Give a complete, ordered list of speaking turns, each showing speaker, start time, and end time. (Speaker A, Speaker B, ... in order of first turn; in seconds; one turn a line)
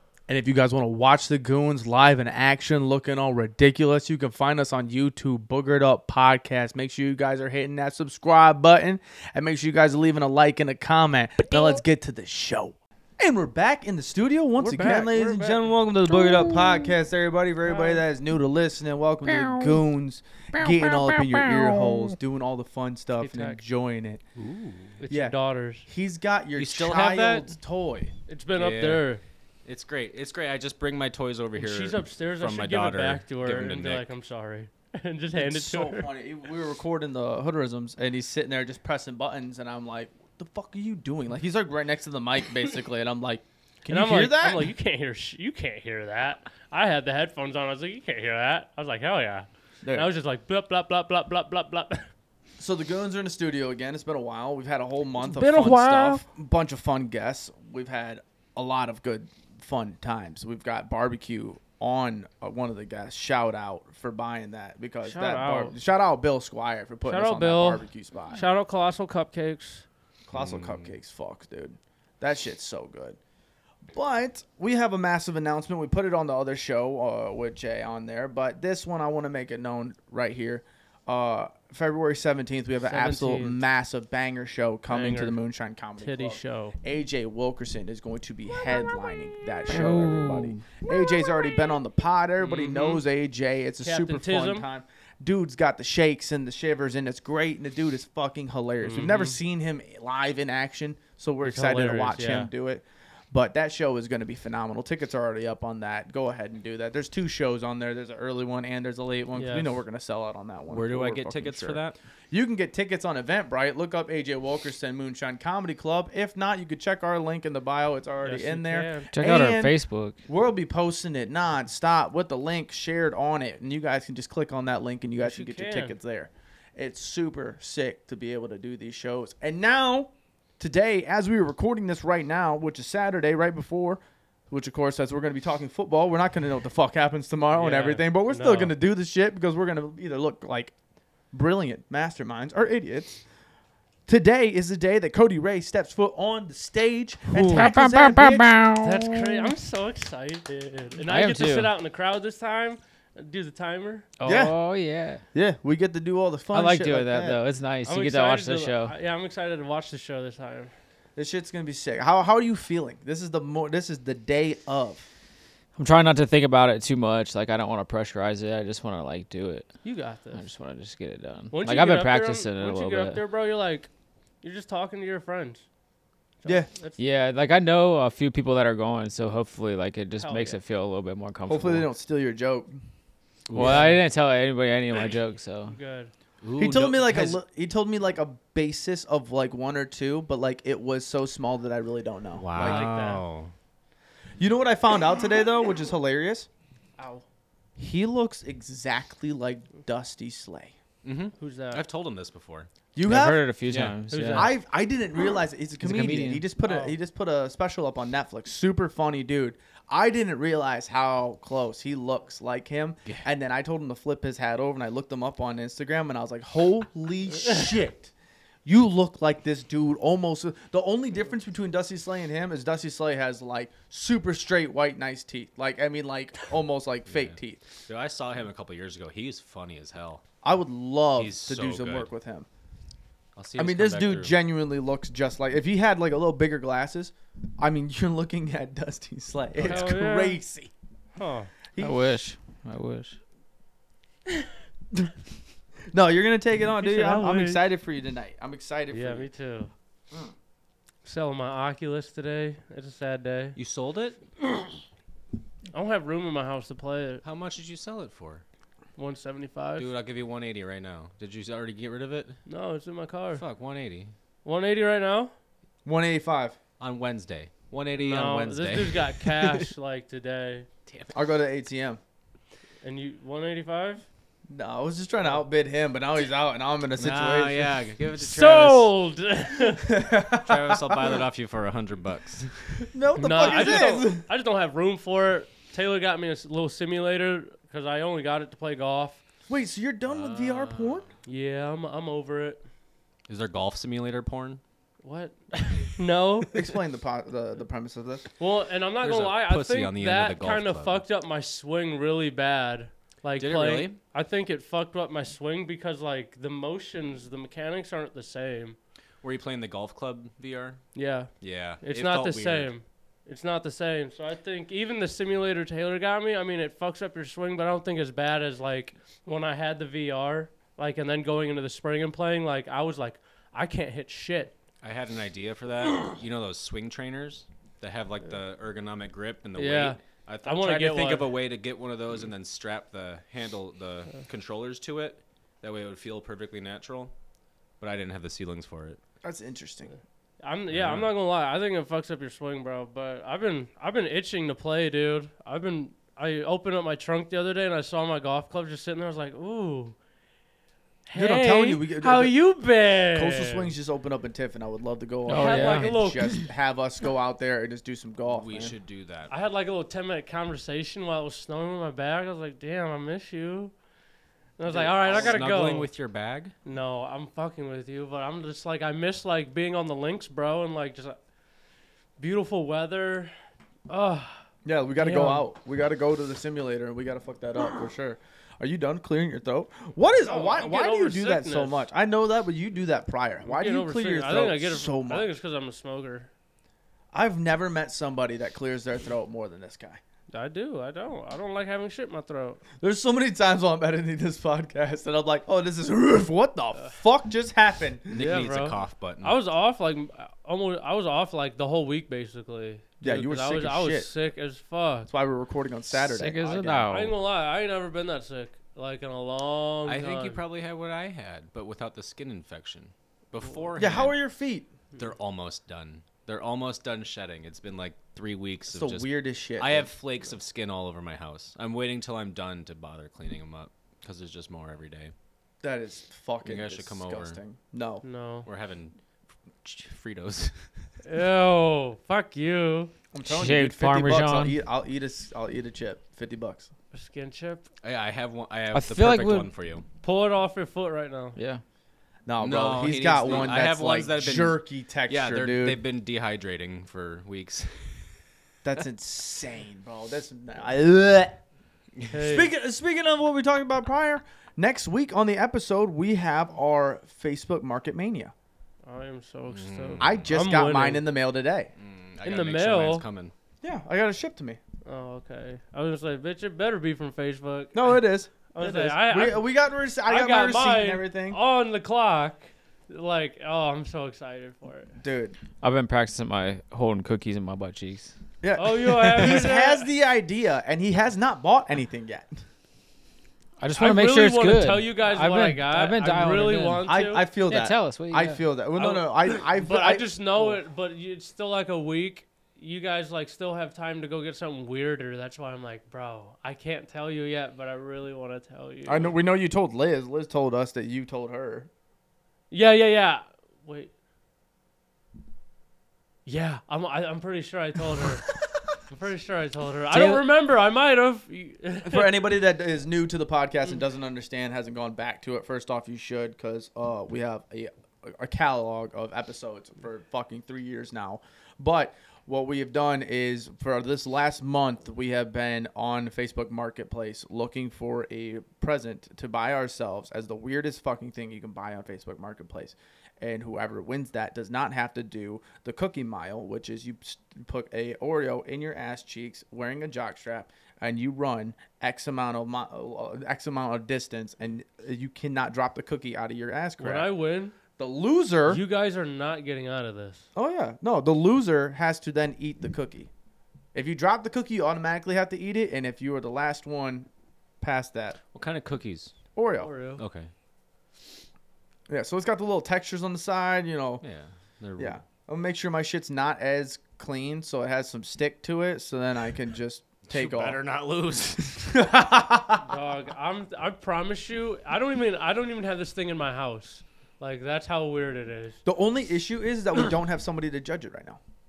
Speaker A: 0.3-24.2
Speaker B: 14.6-15.7
Speaker B: 17.7-18.0
Speaker C: 20.6-22.0
Speaker B: 23.2-23.6
Speaker D: 24.4-25.0
Speaker B: 25.0-25.9
Speaker A: 25.1-25.3
Speaker A: 25.9-28.1
Speaker D: 26.6-27.5
Speaker B: 28.3-29.2
Speaker D: 28.5-29.0
Speaker D: 29.6-34.1
Speaker B: 31.6-36.1
Speaker A: 35.4-44.7
Speaker B: 43.9-52.1
Speaker A: 49.8-50.1
Speaker A: 52.6-68.4
Speaker B: 55.2-56.2
Speaker B: 65.0-65.7
Speaker B: 67.1-69.8
Speaker A: 70.3-73.2
Speaker D: 70.3-70.9
Speaker A: 73.9-119.7
Speaker B: 82.9-83.6
Speaker B: 84.9-85.4
Speaker B: 86.0-86.8
Speaker C: 89.7-90.5
Speaker D: 92.4-93.0
Speaker B: 93.8-94.7
Speaker B: 98.8-99.4
Speaker B: 101.4-102.5
Speaker B: 109.3-109.7
Speaker D: 110.7-112.0
Speaker B: 118.2-119.1
Speaker C: 119.1-120.2
Speaker A: 120.3-140.7
Speaker B: 125.2-126.0
Speaker B: 137.5-138.7
Speaker A: 141.3-143.2
Speaker A: 144.1-148.5
Speaker C: 147.3-149.5
Speaker B: 148.8-154.1
Speaker C: 151.0-151.7
Speaker C: 154.2-155.2
Speaker A: 154.2-154.6
Speaker A: 155.3-157.4
Speaker C: 156.5-158.9
Speaker B: 157.8-160.7
Speaker A: 161.2-165.1
Speaker C: 165.7-169.7
Speaker B: 169.8-170.4
Speaker C: 170.3-173.2
Speaker B: 171.5-173.9
Speaker B: 174.4-175.6
Speaker B: 176.4-177.0
Speaker A: 176.4-176.7
Speaker C: 177.0-181.9
Speaker B: 180.2-180.6
Speaker A: 181.5-182.8
Speaker D: 183.5-183.9
Speaker C: 183.5-185.8
Speaker B: 183.6-184.0
Speaker B: 185.7-186.1
Speaker D: 186.4-187.4
Speaker A: 186.6-192.9
Speaker D: 192.4-193.5
Speaker B: 192.6-193.2
Speaker A: 194.4-196.5
Speaker B: 197.0-197.2
Speaker A: 197.8-200.7
Speaker D: 201.0-202.7
Speaker B: 201.4-201.8
Speaker A: 202.9-203.4
Speaker C: 203.1-204.5
Speaker D: 203.7-204.0
Speaker B: 204.1-204.5
Speaker A: 204.3-218.1
Speaker C: 205.8-206.4
Speaker B: 206.6-206.9
Speaker A: 218.6-227.7
Speaker D: 227.1-230.2
Speaker A: 230.4-232.5
Speaker D: 231.2-232.1
Speaker D: 233.3-234.4
Speaker A: 233.6-240.7
Speaker D: 239.6-239.9
Speaker B: 239.6-240.4
Speaker B: 241.2-241.5
Speaker A: 241.7-242.0
Speaker C: 241.8-243.2
Speaker A: 245.9-249.3
Speaker B: 246.8-247.6
Speaker B: 248.9-249.7
Speaker B: 251.0-253.6
Speaker D: 253.6-254.2
Speaker B: 255.7-257.2
Speaker D: 257.2-258.4
Speaker B: 259.0-259.9
Speaker D: 259.8-262.4
Speaker B: 262.4-263.4
Speaker D: 263.3-264.1
Speaker B: 264.4-265.3
Speaker A: 265.8-266.6
Speaker D: 266.8-269.7
Speaker B: 267.9-270.7
Speaker D: 270.9-271.2
Speaker A: 271.1-272.0
Speaker B: 272.8-274.0
Speaker A: 274.5-277.8
Speaker D: 276.9-278.9
Speaker B: 278.2-279.9
Speaker A: 279.8-281.2
Speaker D: 280.4-282.9
Speaker A: 282.9-284.2
Speaker B: 283.2-289.2
Speaker D: 283.4-283.9
Speaker A: 289.5-291.0
Speaker D: 290.1-291.1
Speaker B: 291.2-292.6
Speaker D: 293.3-294.6
Speaker B: 295.0-296.6
Speaker A: 296.5-298.3
Speaker B: 298.4-308.8
Speaker D: 299.0-301.0
Speaker D: 303.4-304.0
Speaker D: 309.2-310.9
Speaker B: 310.9-324.5
Speaker D: 311.4-312.7
Speaker D: 324.8-337.1
Speaker B: 329.6-331.3
Speaker D: 337.8-339.0
Speaker A: 339.2-339.9
Speaker B: 340.4-349.9
Speaker D: 340.7-341.1
Speaker B: 351.1-353.7
Speaker A: 351.1-352.3
Speaker A: 353.1-358.7
Speaker C: 355.3-355.9
Speaker B: 355.3-356.4
Speaker D: 358.2-359.3
Speaker B: 359.3-363.7
Speaker B: 364.6-365.9
Speaker A: 364.7-365.4
Speaker D: 364.8-366.5
Speaker B: 366.6-371.2
Speaker B: 372.2-373.3
Speaker B: 373.9-374.4
Speaker A: 374.6-385.3
Speaker B: 375.0-375.4
Speaker B: 380.2-381.8
Speaker B: 383.4-386.3
Speaker A: 387.1-390.0
Speaker B: 390.3-392.6
Speaker A: 392.8-398.1
Speaker D: 398.1-399.4
Speaker B: 398.1-405.1
Speaker A: 403.0-404.1
Speaker A: 405.1-406.9
Speaker C: 405.9-407.1
Speaker B: 406.9-410.4
Speaker D: 409.9-414.2
Speaker A: 413.8-414.7
Speaker D: 415.0-425.1
Speaker A: 418.7-419.9
Speaker A: 425.6-428.0
Speaker D: 426.4-427.4
Speaker B: 428.0-428.5
Speaker D: 428.4-429.0
Speaker D: 429.6-430.6
Speaker B: 431.0-432.9
Speaker A: 433.1-436.7
Speaker C: 433.3-434.5
Speaker B: 436.9-437.6
Speaker D: 437.8-439.8
Speaker C: 438.7-439.5
Speaker B: 440.0-441.4
Speaker C: 441.4-441.6
Speaker A: 442.2-445.8
Speaker D: 442.4-448.1
Speaker A: 448.6-451.4
Speaker B: 452.1-452.5
Speaker A: 452.1-458.3
Speaker B: 458.8-461.1
Speaker D: 459.5-460.3
Speaker A: 460.0-461.7
Speaker D: 461.8-463.3
Speaker B: 462.2-463.1
Speaker A: 463.6-464.6
Speaker B: 464.8-468.0
Speaker A: 467.7-471.4
Speaker B: 468.5-469.5
Speaker B: 470.0-474.9
Speaker A: 475.0-475.4
Speaker C: 475.6-478.1
Speaker A: 478.4-482.4
Speaker B: 478.6-479.9
Speaker C: 483.6-486.8
Speaker B: 483.8-487.3
Speaker A: 486.8-490.6
Speaker C: 487.5-488.4
Speaker B: 488.8-499.1
Speaker A: 498.9-501.7
Speaker B: 502.5-503.9
Speaker B: 506.2-508.3
Speaker B: 508.9-512.1
Speaker A: 509.9-510.2
Speaker A: 511.8-547.1
Speaker B: 546.8-547.5
Speaker A: 547.8-548.6
Speaker B: 548.5-550.3
Speaker A: 550.3-553.1
Speaker A: 553.7-557.1
Speaker A: 557.6-558.2
Speaker D: 558.3-559.1
Speaker A: 559.4-559.7
Speaker B: 559.6-560.0
Speaker D: 560.0-560.3
Speaker A: 561.9-564.0
Speaker D: 564.0-565.0
Speaker A: 564.8-570.6
Speaker D: 570.0-571.7
Speaker A: 571.6-572.7
Speaker B: 572.6-578.6
Speaker A: 578.6-581.2